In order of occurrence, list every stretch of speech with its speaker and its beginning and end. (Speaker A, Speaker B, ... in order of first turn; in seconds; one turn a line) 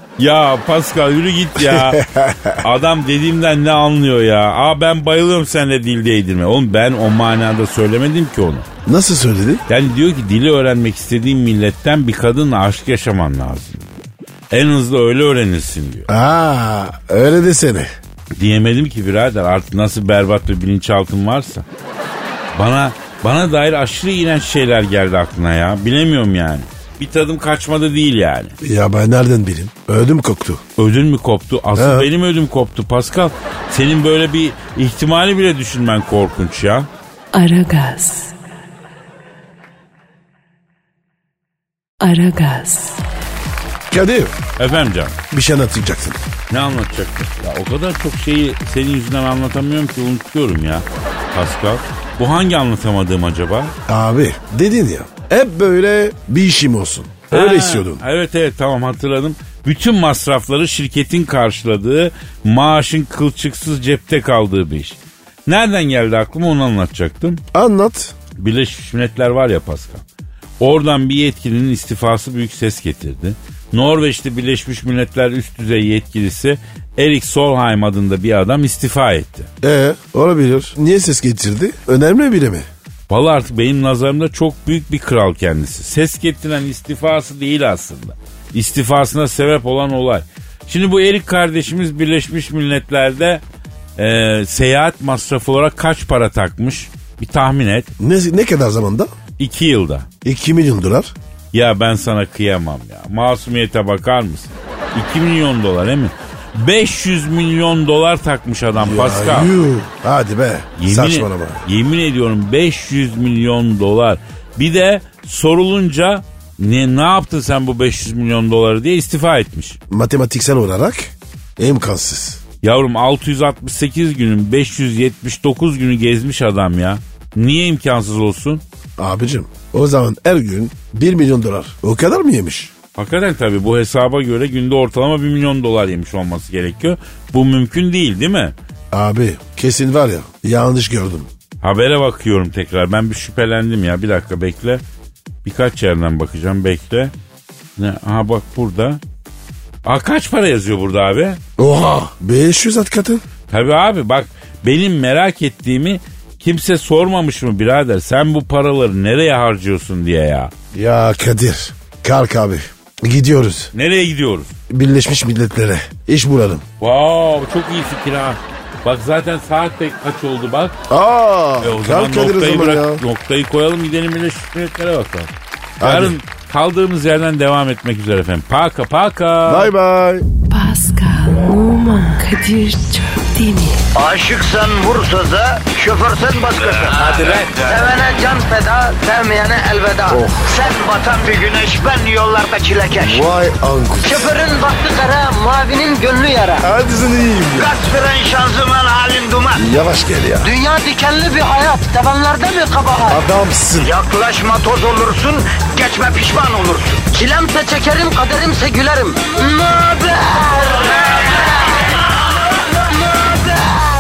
Speaker A: 0.2-2.0
Speaker B: 1.6-2.6
Speaker A: 2.6-8.7
Speaker B: 8.9-9.6
Speaker A: 9.7-13.9
Speaker A: 14.5-16.1
Speaker B: 16.1-17.9
Speaker A: 18.4-21.6
Speaker A: 22.5-28.6
Speaker B: 28.6-30.6
Speaker A: 30.8-36.9
Speaker B: 31.8-32.1
Speaker C: 37.3-38.3
Speaker C: 42.0-43.0
Speaker B: 43.9-44.4
Speaker A: 44.6-45.2
Speaker B: 45.3-46.2
Speaker A: 46.5-53.8
Speaker B: 53.9-58.0
Speaker A: 57.3-67.4
Speaker B: 67.5-68.2
Speaker A: 68.4-70.0
Speaker A: 70.6-79.5
Speaker B: 79.6-82.7
Speaker A: 83.1-93.4
Speaker A: 94.0-97.9
Speaker B: 98.0-99.1
Speaker A: 99.4-100.1
Speaker B: 100.2-101.1
Speaker A: 101.5-109.5
Speaker B: 108.8-111.6
Speaker A: 110.8-119.8
Speaker B: 119.9-122.4
Speaker A: 122.6-128.6
Speaker B: 129.0-132.7
Speaker A: 133.0-138.6
Speaker B: 138.9-141.3
Speaker A: 141.6-144.8
Speaker A: 145.4-147.1
Speaker A: 147.8-149.0
Speaker A: 149.8-151.4
Speaker B: 151.6-153.2
Speaker A: 153.5-160.5
Speaker B: 160.7-163.7
Speaker A: 163.7-164.5
Speaker B: 164.7-166.7
Speaker A: 166.8-170.8
Speaker B: 170.9-173.0
Speaker A: 171.6-179.7
Speaker B: 175.8-176.2
Speaker B: 179.5-180.3
Speaker C: 180.5-183.9
Speaker D: 183.9-193.3
Speaker A: 187.1-187.6
Speaker B: 190.1-190.6
Speaker B: 193.0-194.3
Speaker D: 194.0-196.7
Speaker B: 196.6-197.7
Speaker D: 197.6-199.7
Speaker B: 199.6-200.5
Speaker D: 200.4-203.2
Speaker B: 203.1-203.9
Speaker D: 203.8-211.5
Speaker D: 213.0-213.8